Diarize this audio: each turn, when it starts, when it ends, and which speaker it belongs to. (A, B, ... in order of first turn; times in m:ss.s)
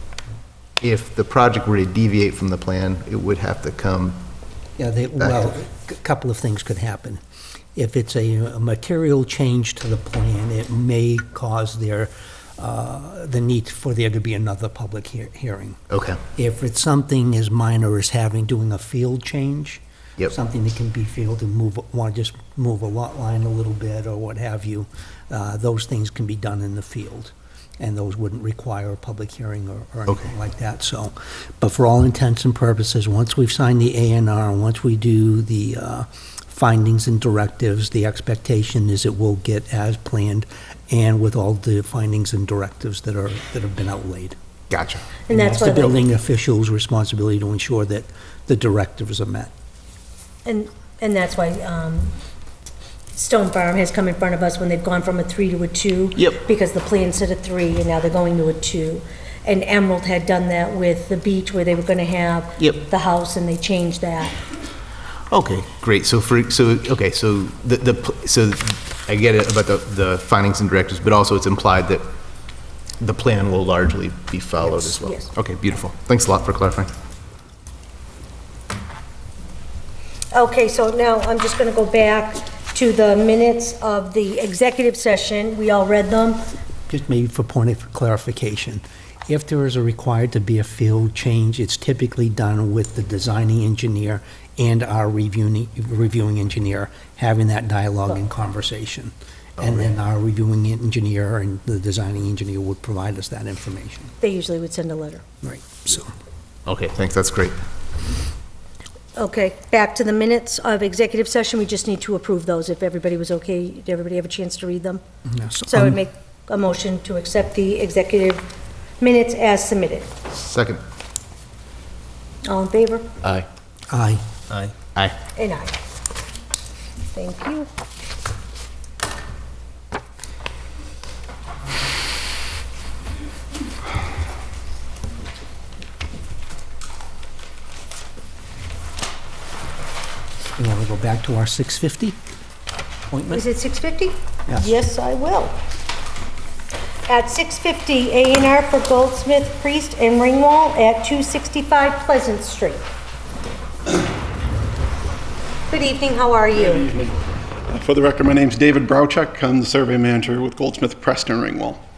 0:00.8-0:04.2 A
0:04.8-0:07.2 B
0:07.7-0:44.3 B
0:15.9-0:16.2 A
0:44.7-0:45.0 A
0:45.3-0:46.0 C
0:45.3-0:49.5 B
0:50.4-0:52.1 C
0:53.1-1:04.4 C
0:56.2-0:56.4 A
1:02.6-1:02.8 A
1:05.3-1:12.0 A
1:13.0-1:16.9 A
1:14.6-1:15.3 C
1:20.3-1:26.4 C
1:26.9-1:44.1 B
1:39.6-1:39.8 A
1:44.2-1:45.2 C
1:45.4-1:46.1 B
1:46.6-1:47.6 A
1:49.2-1:55.0 C
1:55.3-1:56.0 B
1:55.6-1:58.4 C
1:59.0-2:00.1 C
2:00.3-2:00.8 A
2:02.4-2:03.1 C
2:03.9-2:04.2 B
2:04.5-2:05.2 A
2:05.4-2:05.7 C
2:07.1-2:07.7 C
2:20.6-2:22.2 B
2:23.1-2:23.4 B
2:23.3-2:25.6 C
2:27.1-2:32.8 C
2:35.7-2:36.9 C
2:37.7-2:41.8 D